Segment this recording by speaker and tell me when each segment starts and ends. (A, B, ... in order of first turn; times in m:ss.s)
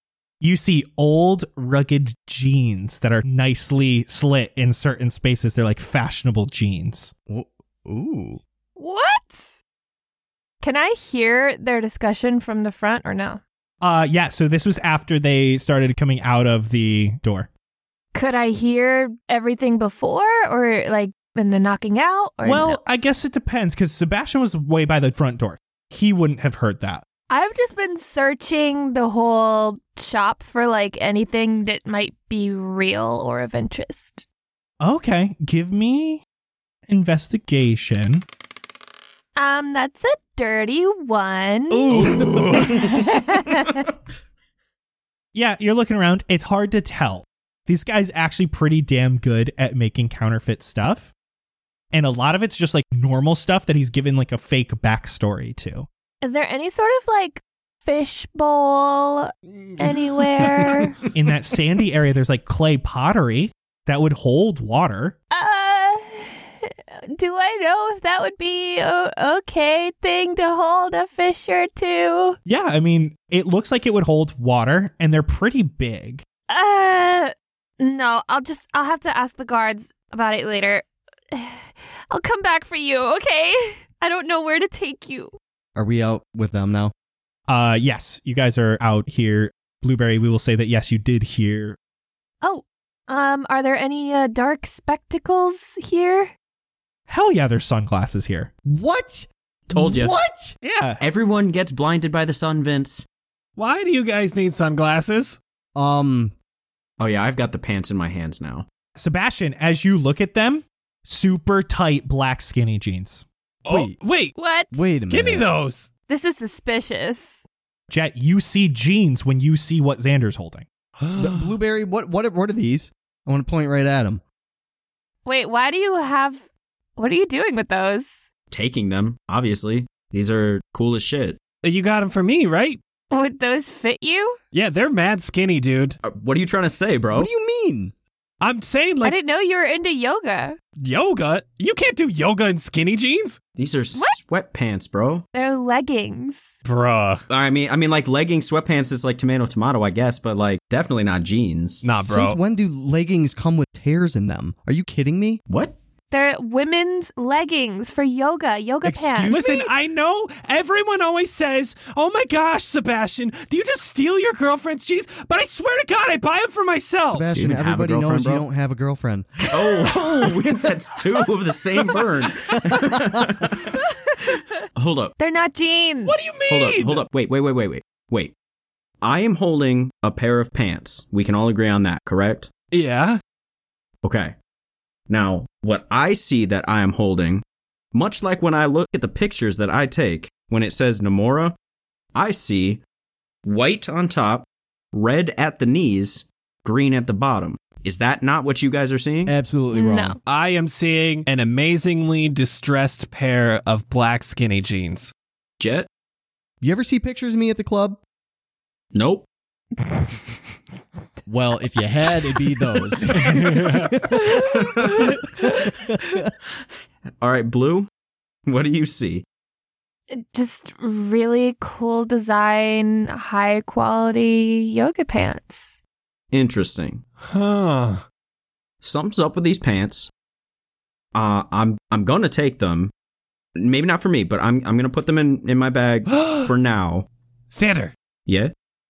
0:00.4-0:07.1 A
0:07.3-0:08.4 B
0:08.8-0:09.6 C
0:10.6-0:13.4 C
0:13.8-0:17.5 A
0:18.1-0:22.8 C
0:22.4-0:27.0 A
0:27.3-0:34.3 C
0:34.8-0:36.2 A
0:36.9-0:38.2 A
0:39.4-0:43.9 C
0:41.7-0:42.9 A
0:45.3-0:51.1 A
0:51.9-0:55.9 A
0:56.2-1:01.0 C
0:59.5-1:00.9 D
1:01.1-1:05.2 A
1:05.3-1:12.4 C
1:12.4-1:16.2 A
1:16.5-1:25.3 C
1:25.8-1:26.9 B
1:27.5-1:31.8 A
1:32.4-1:36.3 C
1:37.1-1:38.5 A
1:38.6-1:40.6 B
1:39.7-1:40.1 E
1:40.6-1:40.9 D
1:41.0-1:43.0 E
1:43.6-1:45.4 D
1:45.7-1:46.3 B
1:47.0-1:48.6 E
1:49.0-1:53.3 A
1:53.6-1:54.3 D
1:53.7-1:54.0 B
1:54.4-1:54.8 C
1:54.7-1:55.5 B
1:55.1-1:55.9 D
1:56.1-1:57.4 C
1:57.9-2:00.6 A
2:01.0-2:01.5 D
2:01.2-2:04.2 B
2:05.2-2:08.3 C
2:08.5-2:11.4 E
2:11.6-2:12.8 D
2:13.1-2:14.4 C
2:14.5-2:16.0 D
2:16.0-2:17.3 E
2:17.1-2:17.9 B
2:18.4-2:19.1 D
2:19.0-2:20.6 C
2:20.8-2:23.4 D
2:23.6-2:25.2 E
2:25.3-2:26.6 C
2:26.6-2:27.2 D
2:27.3-2:31.9 E
2:31.8-2:32.4 D
2:32.0-2:35.4 B
2:35.5-2:35.7 E
2:36.1-2:39.4 C
2:38.8-2:39.7 B
2:39.3-2:47.3 D
2:47.1-2:49.3 B
2:47.3-2:48.4 E
2:49.5-2:53.7 E
2:54.8-2:55.1 E
2:55.2-2:56.4 C
2:56.0-2:57.0 D
2:56.5-2:58.3 E
2:59.0-3:02.5 E
3:02.7-3:03.2 D
3:04.0-3:04.3 E
3:05.1-3:11.6 E
3:12.1-3:12.8 E
3:13.4-3:19.3 E
3:19.3-3:20.2 B
3:19.7-3:20.2 C
3:20.3-3:25.1 D
3:25.6-3:25.9 E
3:26.6-3:28.0 B
3:28.9-3:29.3 E
3:31.3-3:35.0 B
3:33.2-3:33.9 D
3:37.2-3:37.9 E
3:38.4-3:39.2 E
3:40.1-3:45.8 C
3:46.3-3:47.0 E
3:47.2-3:48.0 D
3:48.8-3:50.1 E
3:51.1-3:52.9 E
3:53.6-3:57.1 E
3:56.1-3:56.5 D
3:57.5-3:57.9 D
3:58.3-3:58.5 E